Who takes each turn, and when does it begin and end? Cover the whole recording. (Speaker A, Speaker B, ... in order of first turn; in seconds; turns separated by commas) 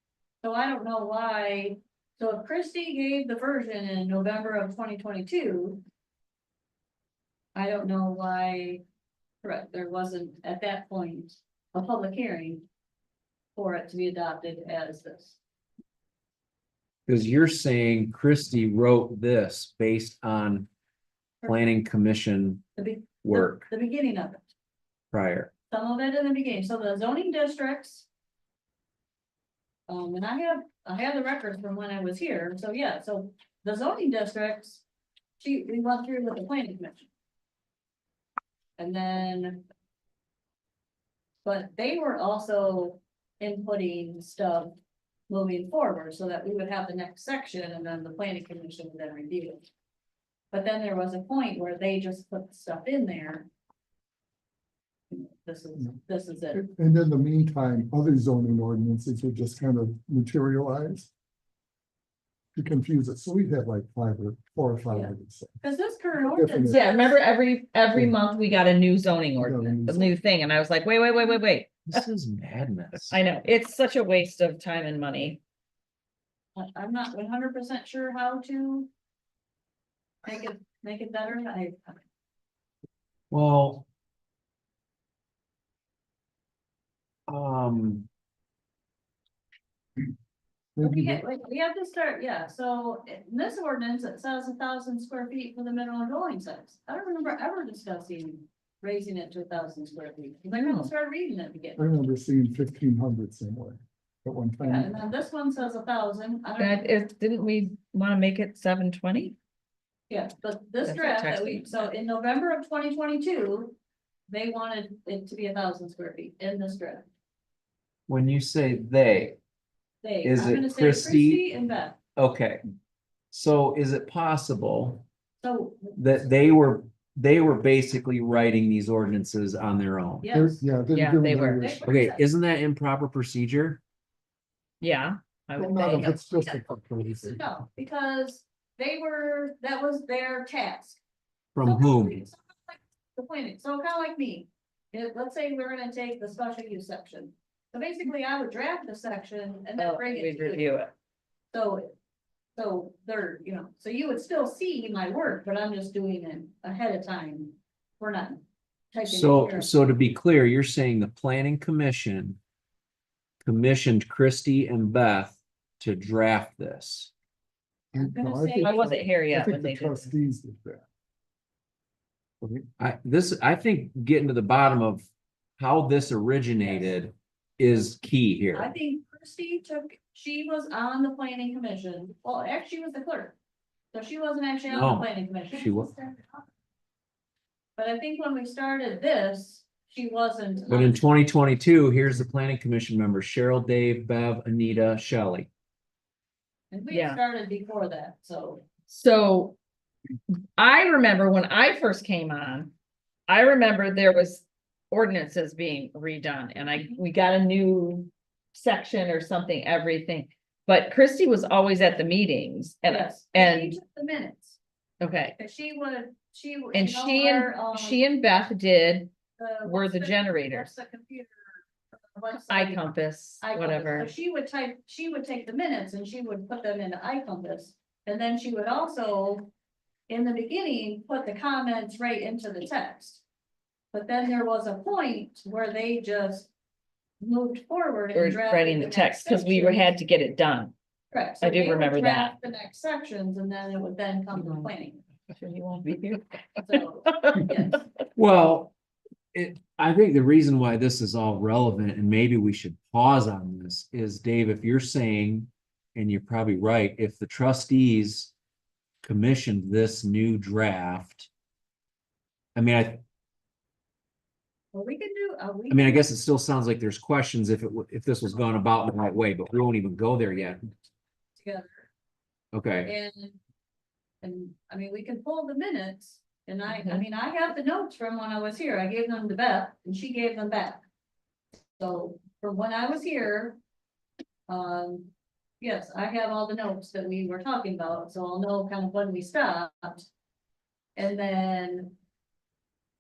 Speaker A: 0.4-5.8, Speaker A: 7.5-8.8, Speaker A: 9.4-12.7, Speaker A: 13.6-15.4, Speaker B: 17.1-20.7, Speaker A: 21.4-21.8, Speaker B: 21.4-22.6, Speaker A: 22.8-24.5, Speaker B: 23.2-23.7, Speaker B: 25.1-25.5, Speaker A: 25.7-28.1, Speaker A: 29.9-34.8, Speaker A: 35.4-37.1, Speaker A: 38.8-39.6, Speaker A: 41.4-44.8, Speaker A: 45.3-49.6, Speaker A: 50.5-53.5, Speaker A: 55.1-56.6, Speaker C: 56.5-61.1, Speaker C: 62.5-65.6, Speaker A: 64.9-67.2, Speaker C: 66.2-66.8, Speaker D: 66.7-72.0, Speaker C: 69.4-70.1, Speaker B: 71.9-73.2, Speaker D: 73.1-75.4, Speaker A: 76.6-78.9, Speaker A: 80.2-82.0, Speaker B: 83.3-83.8, Speaker B: 87.3-88.1, Speaker C: 90.8-91.2, Speaker A: 90.8-101.8, Speaker D: 100.5-100.9, Speaker C: 101.8-105.0, Speaker A: 104.6-106.8, Speaker D: 106.6-109.4, Speaker A: 110.1-113.8, Speaker D: 110.8-111.9, Speaker A: 114.3-117.1, Speaker B: 118.1-119.4, Speaker A: 120.0-122.0, Speaker B: 120.2-121.4, Speaker B: 122.2-122.6, Speaker B: 123.3-125.0, Speaker A: 125.4-126.0, Speaker B: 126.0-130.3, Speaker A: 130.2-130.6, Speaker C: 130.3-131.9, Speaker D: 130.9-131.7, Speaker A: 131.5-132.2, Speaker B: 131.8-133.8, Speaker D: 134.8-136.2, Speaker C: 135.6-137.4, Speaker A: 135.9-141.0, Speaker B: 141.5-142.2, Speaker A: 141.6-150.8, Speaker D: 149.8-150.9, Speaker A: 151.5-151.9, Speaker A: 152.6-159.7, Speaker B: 159.1-162.4, Speaker B: 163.4-167.1, Speaker C: 167.9-170.8, Speaker A: 168.0-169.0, Speaker D: 168.6-170.1, Speaker C: 172.4-172.7, Speaker B: 172.8-178.7, Speaker A: 178.5-183.4, Speaker A: 183.9-186.5, Speaker B: 184.7-185.9, Speaker A: 187.8-191.0, Speaker B: 190.7-195.5, Speaker A: 196.7-198.6, Speaker D: 196.9-197.2, Speaker D: 198.9-199.6, Speaker D: 200.6-202.7, Speaker D: 203.3-213.8, Speaker A: 206.7-207.0, Speaker A: 212.9-214.6, Speaker D: 215.0-215.4, Speaker A: 215.4-218.0, Speaker D: 216.7-219.1, Speaker A: 219.4-222.8, Speaker D: 219.6-220.7, Speaker D: 222.4-224.1, Speaker A: 223.4-229.5, Speaker A: 230.1-233.2, Speaker A: 233.9-236.5, Speaker A: 237.2-239.9, Speaker D: 238.1-240.7, Speaker A: 241.1-245.0, Speaker D: 241.4-242.3, Speaker D: 244.4-244.7, Speaker D: 245.3-247.6, Speaker A: 246.6-247.9, Speaker B: 248.2-248.7, Speaker B: 249.3-258.3, Speaker B: 259.0-261.3, Speaker B: 262.6-263.0, Speaker A: 264.7-266.1, Speaker B: 265.7-270.7, Speaker A: 271.4-271.9, Speaker B: 272.5-272.9, Speaker A: 272.9-273.4, Speaker A: 274.2-280.8, Speaker D: 276.7-277.0, Speaker A: 281.8-283.6, Speaker A: 284.5-290.1, Speaker A: 291.0-291.9